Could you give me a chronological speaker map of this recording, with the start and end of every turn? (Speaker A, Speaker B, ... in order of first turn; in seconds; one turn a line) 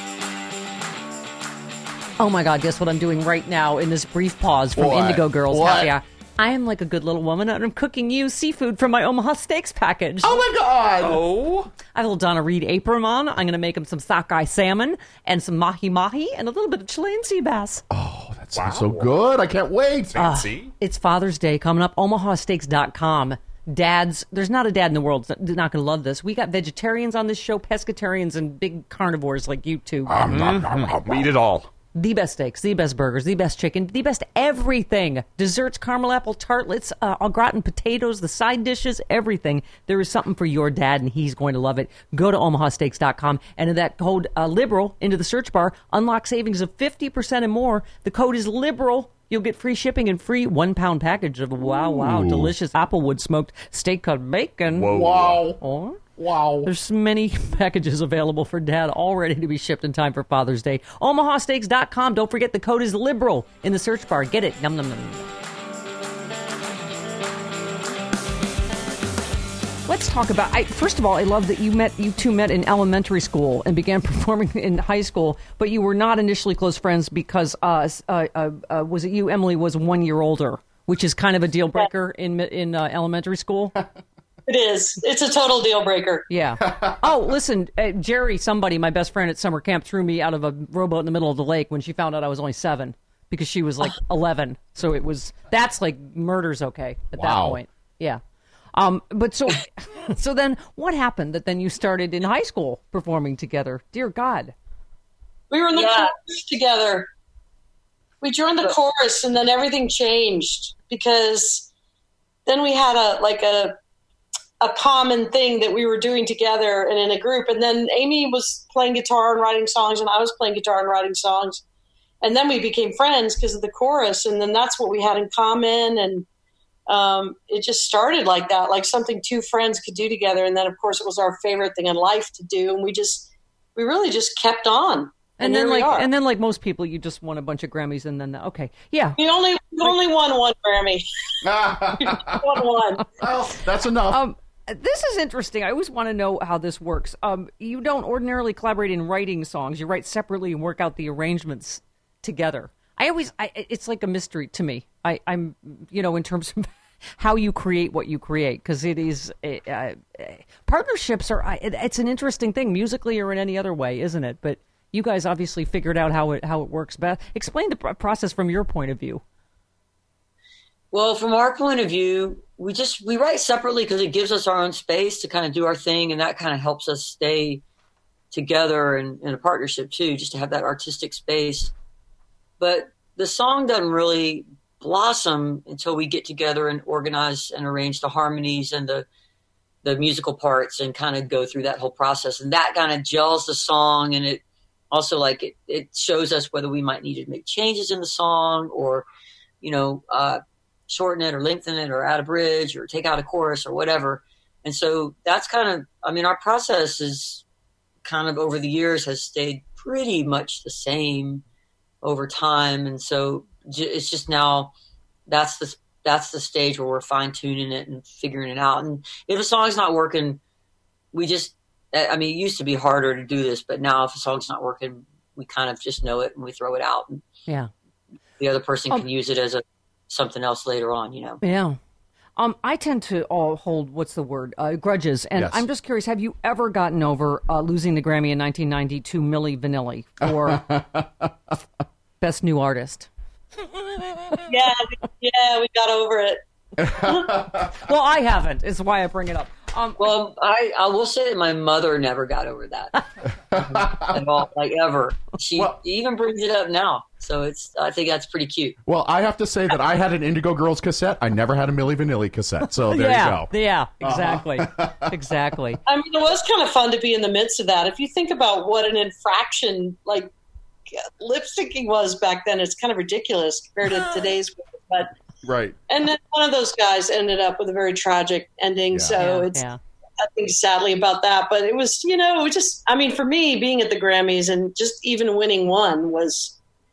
Speaker A: 2.2-10.4
Speaker B: 4.8-5.9
Speaker B: 10.2-11.2
Speaker C: 11.0-11.7
Speaker A: 11.9-17.8
Speaker B: 17.9-20.6
Speaker C: 18.6-19.1
Speaker A: 20.2-30.3
Speaker C: 20.2-20.7
Speaker B: 30.1-31.3
Speaker C: 30.1-31.7
Speaker A: 31.9-55.0
Speaker B: 52.0-52.5
Speaker C: 54.7-55.4
Speaker B: 54.9-55.6
Speaker A: 55.6-56.0
Speaker B: 56.2-56.7
Speaker A: 56.6-65.3
Speaker A: 69.9-83.8
Speaker D: 84.5-86.3
Speaker A: 86.3-98.2
Speaker B: 86.6-87.0
Speaker B: 97.1-97.6
Speaker A: 98.7-104.5
Speaker D: 105.5-107.1
Speaker E: 105.7-106.1
Speaker D: 108.2-111.7
Speaker D: 112.5-113.8
Speaker D: 114.6-121.6
Speaker D: 122.2-126.3
Speaker D: 126.9-136.1
Speaker A: 135.4-139.2
Speaker D: 139.2-143.1
Speaker B: 141.4-142.6
Speaker B: 143.2-144.2
Speaker A: 144.1-169.2
Speaker E: 170.9-177.6
Speaker E: 178.3-181.7
Speaker E: 182.6-189.1
Speaker E: 189.8-199.1
Speaker E: 199.6-207.4
Speaker E: 208.0-211.4
Speaker E: 212.0-214.7
Speaker E: 215.3-220.4
Speaker E: 221.1-227.2
Speaker E: 228.4-231.4
Speaker A: 231.4-231.8
Speaker A: 232.4-240.7
Speaker B: 235.4-235.7
Speaker B: 240.2-241.6
Speaker A: 242.2-243.1
Speaker A: 244.2-244.4
Speaker D: 244.5-247.4
Speaker B: 246.8-247.7
Speaker A: 247.8-250.1
Speaker E: 250.0-253.0
Speaker B: 253.5-254.2
Speaker E: 253.8-258.8
Speaker B: 258.9-265.2
Speaker A: 262.9-265.8
Speaker D: 265.9-270.3
Speaker D: 270.9-275.1
Speaker B: 275.4-275.8
Speaker D: 275.9-279.6
Speaker B: 278.9-279.2
Speaker A: 279.2-279.8
Speaker D: 280.2-286.6